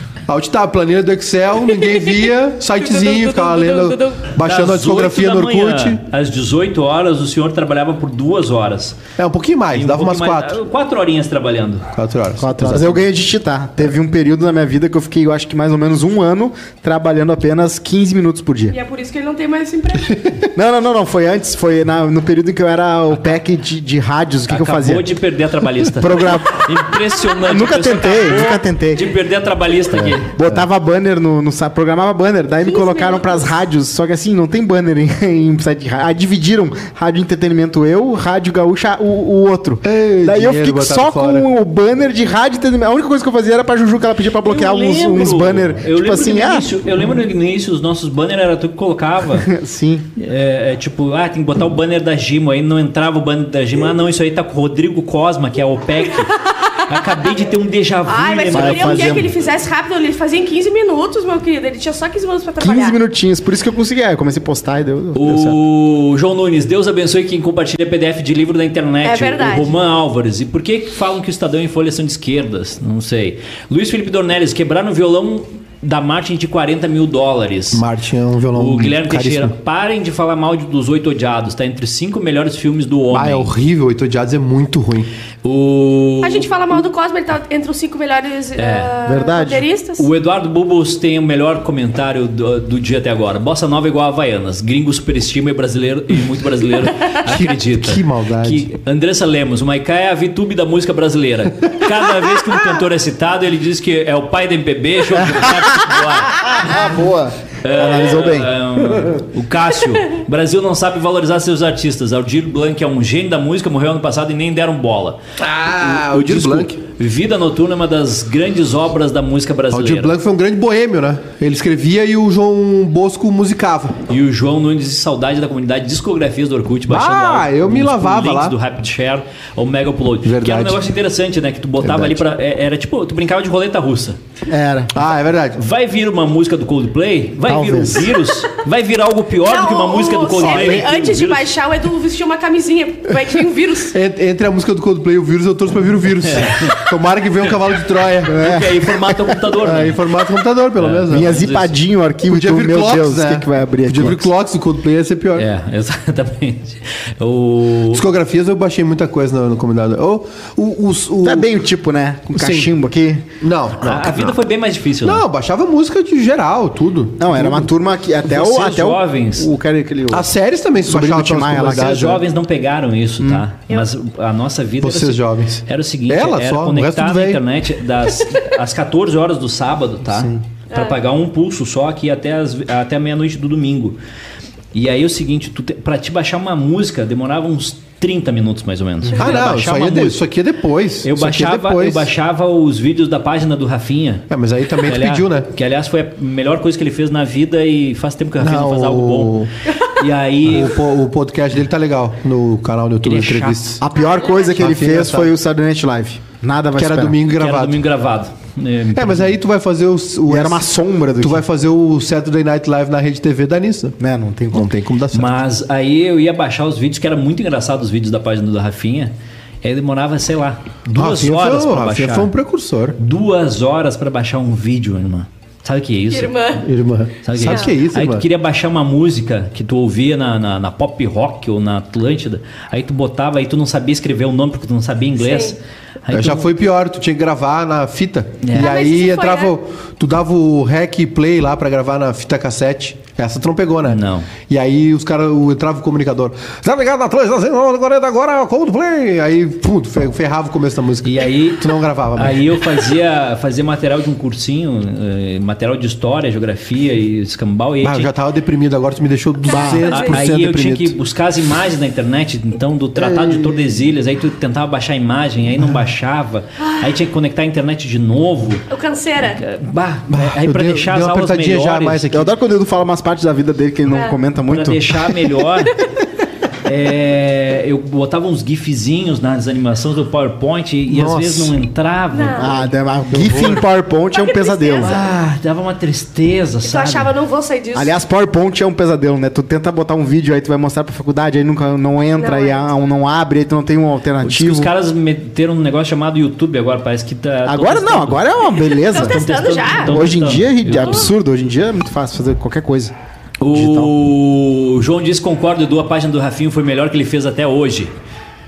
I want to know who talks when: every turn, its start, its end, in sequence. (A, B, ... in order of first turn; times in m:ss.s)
0:00.3-0:06.0 A
0:01.8-0:04.3 B
0:04.4-0:09.0 C
0:09.2-0:10.6 A
0:09.7-0:11.9 C
0:11.9-0:13.0 A
0:12.4-0:18.8 D
0:18.7-0:20.2 B
0:20.5-0:25.1 D
0:24.5-0:30.4 C
0:25.9-0:26.8 D
0:27.3-0:29.1 D
0:29.9-0:30.6 A
0:30.3-0:46.7 D
0:32.7-0:33.5 B
0:39.8-0:41.5 A
0:44.4-0:49.5 C
0:49.4-0:50.1 D
0:50.2-0:59.3 C
0:56.3-0:56.9 B
0:58.1-1:03.0 B
0:58.5-0:59.3 D
1:02.6-1:05.6 D
1:05.2-1:17.8 C
1:09.0-1:09.7 B
1:17.7-1:19.5 A
1:18.6-1:23.5 C
1:23.1-1:25.1 A
1:25.4-1:26.5 C
1:26.2-1:30.1 B
1:28.6-1:28.9 C
1:29.1-1:29.6 D
1:30.0-1:46.8 C
1:37.2-1:38.7 A
1:45.2-1:49.2 D
1:47.6-1:55.2 C
1:55.4-1:56.8 A
1:55.8-2:00.1 C
1:59.7-2:04.0 A
2:04.1-2:14.2 C
2:06.9-2:08.6 A
2:10.2-2:10.8 A
2:11.8-2:12.2 A
2:14.5-2:14.9 D
2:14.9-2:15.6 A
2:15.6-2:21.4 C
2:17.4-2:18.2 D
2:19.4-2:24.0 B
2:20.5-2:21.1 D
2:23.9-2:28.6 A
2:26.2-2:26.8 C
2:28.2-2:30.0 C
2:28.3-2:29.9 D
2:29.7-2:31.4 A
2:30.8-2:31.7 C
2:31.1-2:34.3 D
2:32.2-2:35.5 A
2:35.4-2:38.1 C
2:37.9-2:41.5 A
2:41.2-2:43.3 D
2:42.4-2:42.7 A
2:43.4-2:44.4 A
2:43.8-2:45.2 C
2:45.0-2:47.7 A
2:47.2-2:52.2 D
2:48.2-2:49.5 C
2:50.1-2:52.2 A
2:51.7-3:04.0 C
2:54.8-2:57.4 A
3:00.1-3:00.4 D
3:00.7-3:01.0 B
3:04.7-3:10.2 C
3:09.2-3:12.1 A
3:11.0-3:14.3 C
3:14.3-3:15.5 A
3:14.8-3:20.8 C
3:18.4-3:19.5 A
3:20.4-3:23.8 A
3:23.0-3:23.8 C
3:23.8-3:27.2 D
3:23.9-3:24.6 B
3:24.6-3:25.3 A
3:26.8-3:27.8 A
3:27.3-3:29.3 C
3:28.9-3:30.7 A
3:30.3-3:31.4 D
3:31.2-3:34.0 A
3:34.0-3:34.7 D
3:34.5-3:35.4 A
3:35.1-3:42.3 C
3:41.0-3:43.0 A
3:43.0-3:46.5 C
3:46.1-3:46.6 B
3:46.6-3:48.2 A
3:47.2-3:56.5 C
3:55.2-3:55.6 B
3:56.1-4:12.6 A
3:58.4-3:58.7 C
3:58.6-3:59.5 B
4:03.8-4:04.3 C
4:11.0-4:18.1 C
4:17.8-4:20.9 A
4:19.5-4:20.2 B
4:19.5-4:19.8 D
4:20.1-4:28.6 C
4:23.0-4:23.6 D
4:28.7-4:29.4 B
4:29.4-4:32.1 C
4:30.1-4:32.3 A
4:32.1-4:35.2 D
4:33.9-4:34.2 B
4:34.5-4:35.8 C
4:36.6-4:42.5 C
4:40.9-4:41.5 A
4:42.1-4:42.7 B
4:42.4-4:45.0 D
4:43.1-4:43.7 A
4:44.1-4:45.0 B
4:44.8-4:47.1 C
4:46.6-4:47.9 B
4:47.8-4:54.7 D
4:52.2-4:52.6 B
4:54.2-4:58.2 C
4:57.4-5:02.9 D
4:58.6-4:59.9 B
4:58.9-5:01.1 C
5:03.4-5:07.9 C
5:03.5-5:03.9 D